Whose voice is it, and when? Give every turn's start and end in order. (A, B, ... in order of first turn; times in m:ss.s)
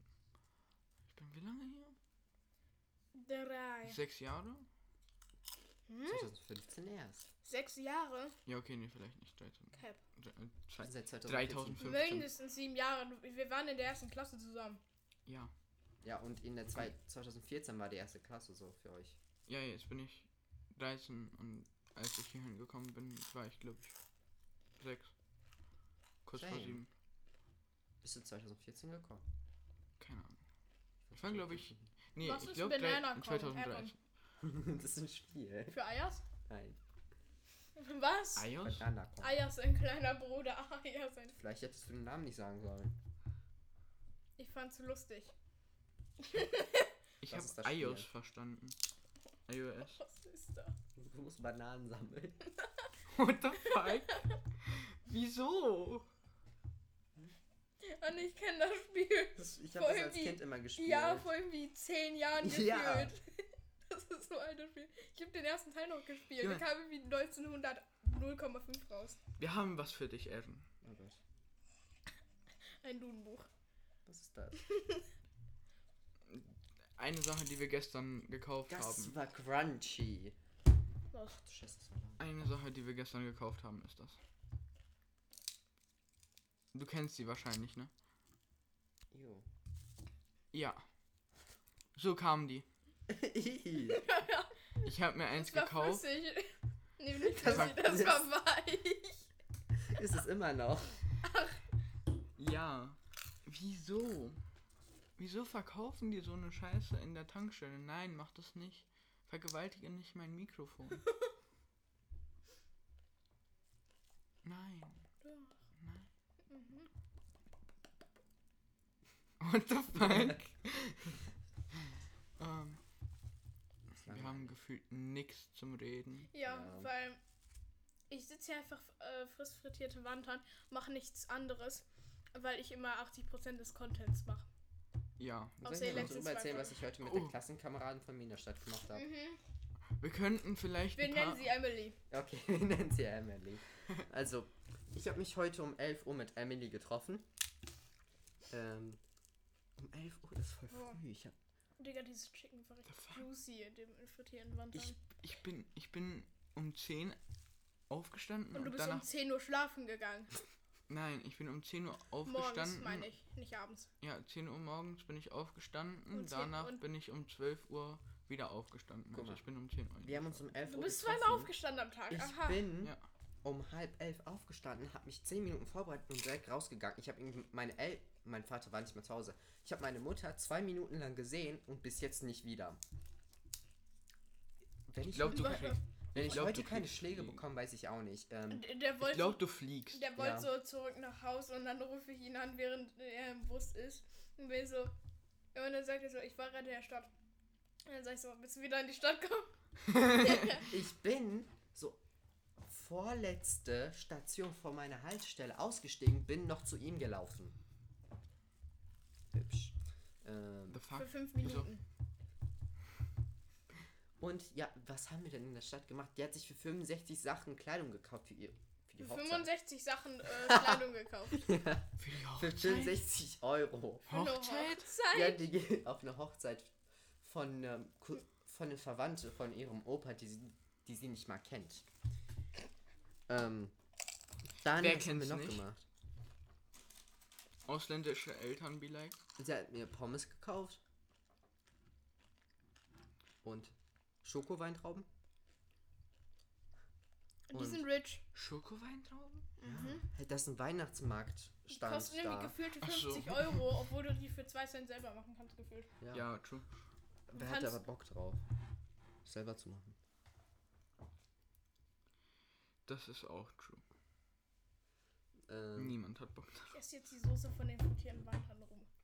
0:01.1-0:02.0 A
0:03.1-0:04.0 B
0:03.8-0:04.6 A
0:05.9-0:06.3 B
0:06.1-0:07.3 C
0:07.4-0:08.4 B
0:08.4-0:12.3 A
0:09.7-0:10.0 B
0:10.8-0:11.9 C
0:11.8-0:14.8 B
0:15.2-0:15.5 A
0:16.0-0:19.2 C
0:19.5-0:23.9 A
0:24.8-0:25.1 A
0:26.2-0:26.9 A
0:26.3-0:26.8 C
0:28.0-0:29.2 C
0:30.0-0:30.4 A
0:31.1-0:31.8 C
0:31.1-0:34.0 A
0:32.2-0:33.9 B
0:34.4-0:35.8 C
0:35.7-0:36.2 B
0:36.4-0:36.8 C
0:37.8-0:38.5 B
0:38.4-0:38.9 A
0:38.6-0:39.4 C
0:39.2-0:41.4 B
0:41.4-0:42.9 C
0:44.4-0:45.3 B
0:46.2-0:46.9 B
0:47.2-0:48.8 A
0:47.2-0:48.1 C
0:49.5-0:50.0 A
0:49.8-0:50.7 B
0:51.0-0:52.4 C
0:52.6-0:52.9 B
0:53.1-0:56.0 A
0:53.6-0:54.2 B
0:57.8-1:09.2 B
0:59.4-1:01.3 C
1:02.4-1:03.1 C
1:09.4-1:10.7 A
1:10.8-1:11.2 C
1:12.8-1:13.5 B
1:14.0-1:14.6 C
1:14.6-1:15.0 B
1:16.3-1:19.1 A
1:18.7-1:20.4 C
1:21.1-1:21.4 B
1:21.4-1:22.2 C
1:22.2-1:24.2 A
1:26.7-1:27.9 A
1:29.1-1:29.4 C
1:30.5-1:30.8 A
1:32.0-1:32.6 A
1:33.1-1:34.0 C
1:33.9-1:39.3 B
1:34.8-1:36.0 A
1:37.2-1:38.2 C
1:37.4-1:37.7 A
1:39.8-1:41.0 C
1:41.2-1:41.6 B
1:42.4-1:44.4 A
1:45.2-1:51.0 A
1:54.4-1:55.0 A
1:55.2-1:55.6 B
1:55.8-1:56.1 A
1:56.5-1:56.9 B
1:59.4-2:01.2 A
2:00.0-2:00.4 C
2:02.4-2:02.8 A
2:03.9-2:04.5 C
2:04.0-2:06.3 A
2:06.3-2:07.2 B
2:06.4-2:06.9 C
2:08.1-2:14.5 B
2:15.2-2:16.2 A
2:15.6-2:19.1 C
2:15.6-2:16.8 B
2:17.0-2:17.4 A
2:18.9-2:19.4 B
2:20.0-2:21.4 A
2:21.0-2:22.0 B
2:22.1-2:27.2 C
2:28.5-2:29.0 C
2:29.8-2:31.3 C
2:30.7-2:31.0 B
2:31.8-2:35.0 B
2:32.9-2:33.2 A
2:35.0-2:37.2 A
2:37.9-2:39.1 A
2:38.5-2:40.3 B
2:40.9-2:43.1 A
2:42.2-2:43.9 B
2:44.0-2:50.4 A
2:46.1-2:46.8 B
2:49.1-2:49.4 C
2:50.0-2:51.5 C
2:50.7-2:52.7 B
2:52.1-3:02.8 C
3:04.9-3:08.7 C
3:05.1-3:07.4 A
3:05.3-3:05.8 B
3:08.5-3:09.4 B
3:09.0-3:10.1 A
3:09.9-3:14.9 B
3:10.2-3:10.5 C
3:15.5-3:17.1 B
3:17.8-3:20.7 B
3:19.9-3:20.4 A
3:20.6-3:22.0 C
3:22.6-3:27.5 C
3:29.3-3:30.8 C
3:30.7-3:31.7 A
3:30.9-3:31.8 B
3:34.2-3:39.5 C
3:39.0-3:41.5 B
3:40.3-3:44.1 C
3:42.0-3:43.0 A
3:44.1-3:44.9 A
3:44.1-3:45.4 B
3:45.1-3:51.8 C
3:53.3-3:53.7 C
3:54.6-3:55.8 C
3:54.8-3:55.6 A
3:57.6-3:59.2 A
3:59.4-4:00.8 C
4:03.4-4:05.1 C
4:07.5-4:08.2 B
4:07.5-4:07.9 C
4:08.3-4:09.5 A
4:09.6-4:10.0 B
4:09.6-4:12.5 C
4:11.7-4:15.9 B
4:12.8-4:13.7 A
4:16.0-4:16.2 C
4:16.1-4:16.7 A
4:17.3-4:18.4 C
4:17.3-4:17.8 B
4:19.2-4:20.0 C
4:22.8-4:23.8 A
4:25.4-4:25.9 C
4:25.8-4:26.7 A
4:26.7-4:28.9 B